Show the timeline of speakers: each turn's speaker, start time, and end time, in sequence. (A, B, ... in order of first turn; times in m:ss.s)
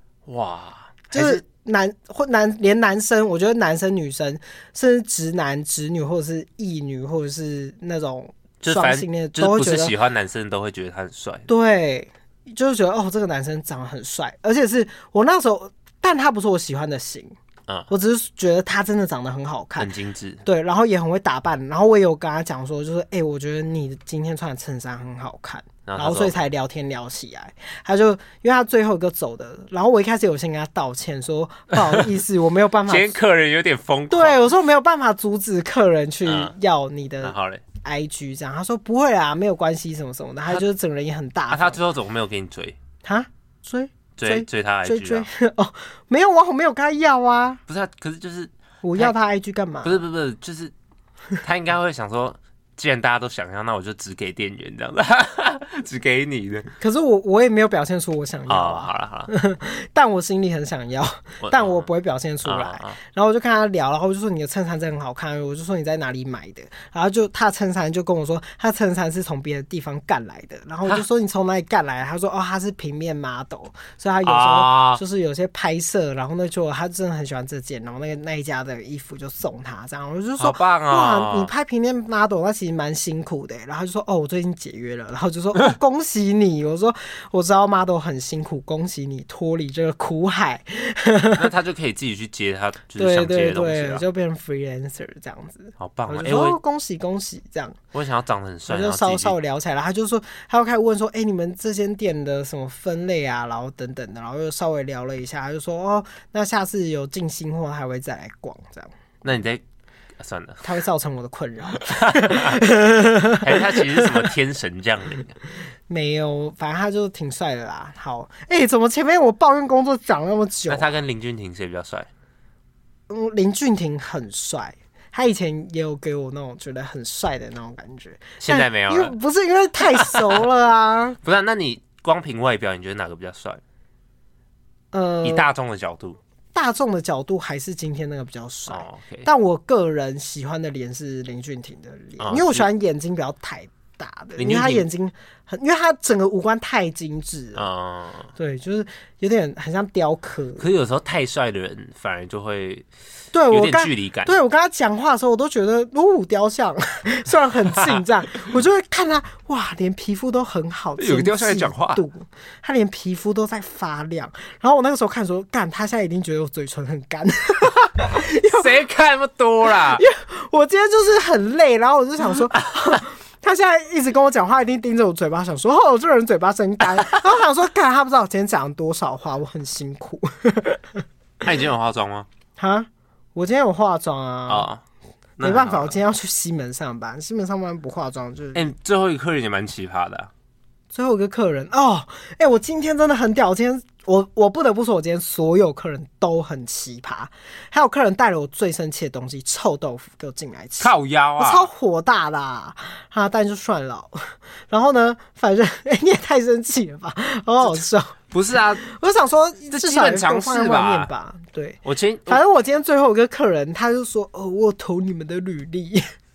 0:00.2-0:01.4 A
0:01.1-0:09.9 B
0:08.6-0:11.5 A
0:11.5-0:17.3 B
0:17.9-0:19.9 B
0:19.8-0:20.4 A
0:20.4-0:33.1 B
0:25.8-0:26.4 A
0:32.9-0:34.4 A
0:34.1-0:41.8 B
0:36.2-0:36.5 A
0:37.2-0:37.6 A
0:41.5-0:42.8 A
0:43.0-0:47.6 B
0:44.2-0:45.3 A
0:47.7-0:49.1 A
0:48.8-0:50.0 B
0:49.8-0:50.7 A
0:51.4-0:56.7 A
0:56.8-1:31.5 B
0:58.5-0:59.3 A
1:01.4-1:01.9 A
1:02.4-1:03.0 A
1:14.2-1:15.0 A
1:20.4-1:21.5 A
1:31.4-1:34.0 A
1:33.0-1:37.8 B
1:35.8-1:36.6 A
1:37.9-1:39.4 A
1:38.7-1:48.9 B
1:49.2-1:49.6 A
1:50.2-1:50.6 A
1:50.6-1:54.3 B
1:51.8-1:52.6 A
1:53.4-1:55.4 A
1:55.9-2:00.9 B
2:00.7-2:02.1 A
2:03.1-2:11.2 B
2:08.4-2:09.1 A
2:09.9-2:10.4 A
2:11.2-2:13.6 A
2:14.9-2:15.5 B
2:15.2-2:16.2 A
2:16.5-2:27.7 B
2:18.7-2:19.3 A
2:22.2-2:22.6 A
2:24.4-2:24.8 A
2:27.6-2:28.3 A
2:28.4-2:30.6 B
2:30.6-2:32.9 A
2:33.3-2:48.7 B
2:33.5-2:34.3 A
2:41.0-2:42.0 A
2:48.4-2:50.0 A
2:49.7-3:01.0 B
3:01.4-3:02.3 A
3:02.6-3:04.7 B
3:04.5-3:04.8 A
3:05.4-3:06.0 A
3:05.4-3:08.7 B
3:08.5-3:10.3 A
3:10.9-3:28.2 B
3:20.8-3:21.7 A
3:27.6-3:28.8 A
3:28.8-3:36.1 B
3:29.7-3:31.1 A
3:31.8-3:32.4 A